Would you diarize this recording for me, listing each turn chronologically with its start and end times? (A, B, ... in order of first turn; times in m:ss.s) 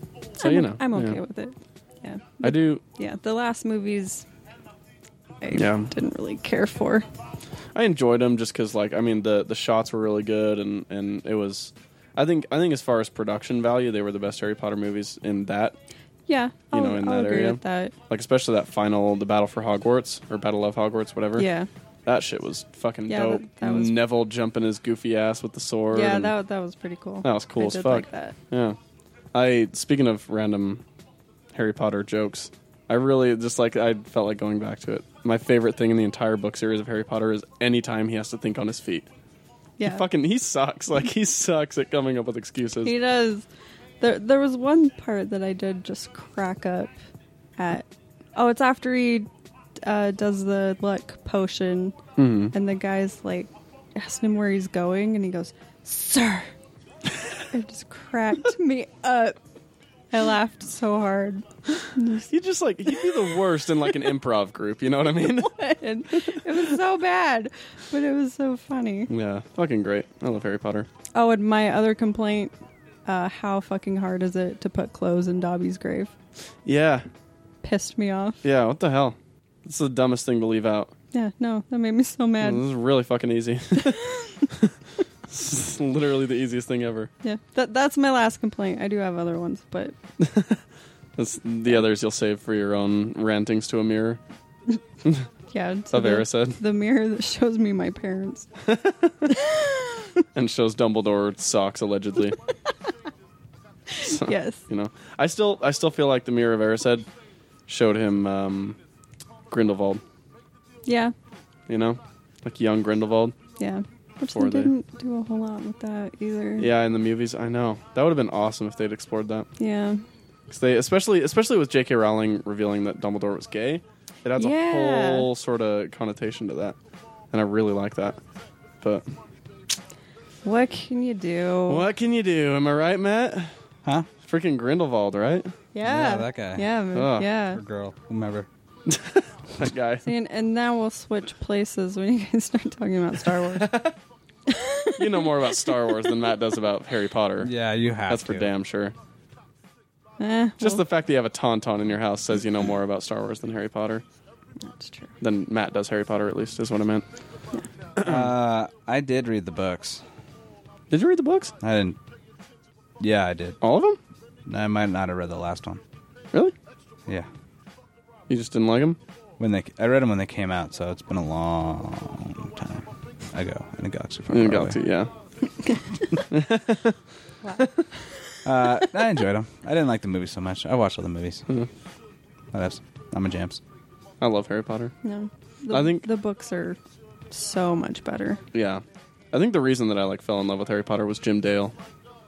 0:00.4-0:01.2 A
0:00.4-0:04.3 B
0:02.4-0:02.8 A
0:05.4-0:07.1 B
0:05.5-0:05.9 A
0:07.8-0:15.8 A
0:16.3-0:17.9 B
0:16.7-0:21.5 A
0:21.4-0:21.7 B
0:22.1-0:26.3 A
0:23.1-0:24.0 B
0:25.9-0:28.4 B
0:27.2-0:28.8 A
0:29.3-0:30.8 A
0:31.5-0:39.1 A
0:39.8-0:40.0 B
0:39.8-0:42.9 A
0:42.8-0:43.5 B
0:44.0-0:46.9 B
0:47.6-0:49.3 B
0:49.8-0:52.0 B
0:52.2-0:52.5 A
0:52.5-0:56.5 B
0:57.5-0:59.4 B
1:00.1-1:02.3 B
1:02.3-1:05.6 A
1:02.9-1:03.3 B
1:05.4-1:09.1 B
1:06.2-1:06.6 A
1:09.1-1:10.9 A
1:11.2-1:12.5 B
1:13.1-1:16.1 B
1:16.6-1:17.1 A
1:17.6-1:18.4 B
1:18.4-1:20.9 A
1:21.1-1:22.6 B
1:22.4-1:24.7 A
1:23.8-1:24.5 B
1:25.3-1:27.1 A
1:27.2-1:30.0 B
1:30.2-1:30.6 A
1:31.2-1:34.2 A
1:35.5-1:38.5 B
1:35.9-1:36.6 A
1:38.6-1:39.3 A
1:39.3-1:40.1 B
1:40.3-1:42.4 A
1:43.9-1:44.6 B
1:44.0-1:47.1 A
1:47.7-1:48.8 A
1:49.5-1:50.0 A
1:50.9-1:51.1 B
1:51.7-1:53.4 A
1:53.6-1:56.7 B
1:54.3-1:54.7 A
1:56.6-1:59.5 A
1:59.6-2:00.0 B
2:00.5-2:06.8 A
2:04.4-2:05.3 B
2:07.3-2:08.2 A
2:10.4-2:11.9 B
2:11.7-2:13.5 A
2:14.2-2:15.5 A
2:15.8-2:17.6 B
2:15.8-2:16.7 C
2:16.9-2:17.3 A
2:17.4-2:18.5 C
2:18.9-2:20.1 A
2:20.0-2:23.9 B
2:23.6-2:23.9 A
2:24.5-2:25.5 B
2:25.0-2:27.5 A
2:27.4-2:28.5 C
2:28.1-2:29.0 A
2:30.2-2:30.8 B
2:30.6-2:34.0 A
2:34.6-2:35.1 B
2:35.2-2:37.1 A
2:38.0-2:38.3 A
2:38.0-2:40.0 C
2:40.9-2:41.5 A
2:41.6-2:42.0 C
2:43.0-2:43.6 C
2:43.6-2:44.0 A
2:44.5-2:45.8 C
2:48.3-2:49.0 A
2:49.4-2:54.8 C
2:54.3-2:55.1 A
2:56.3-2:57.0 A
2:58.4-3:01.4 C
3:02.5-3:03.6 C
3:04.2-3:04.9 A
3:05.0-3:06.8 B
3:05.7-3:06.1 A
3:07.3-3:08.4 B
3:08.5-3:11.8 A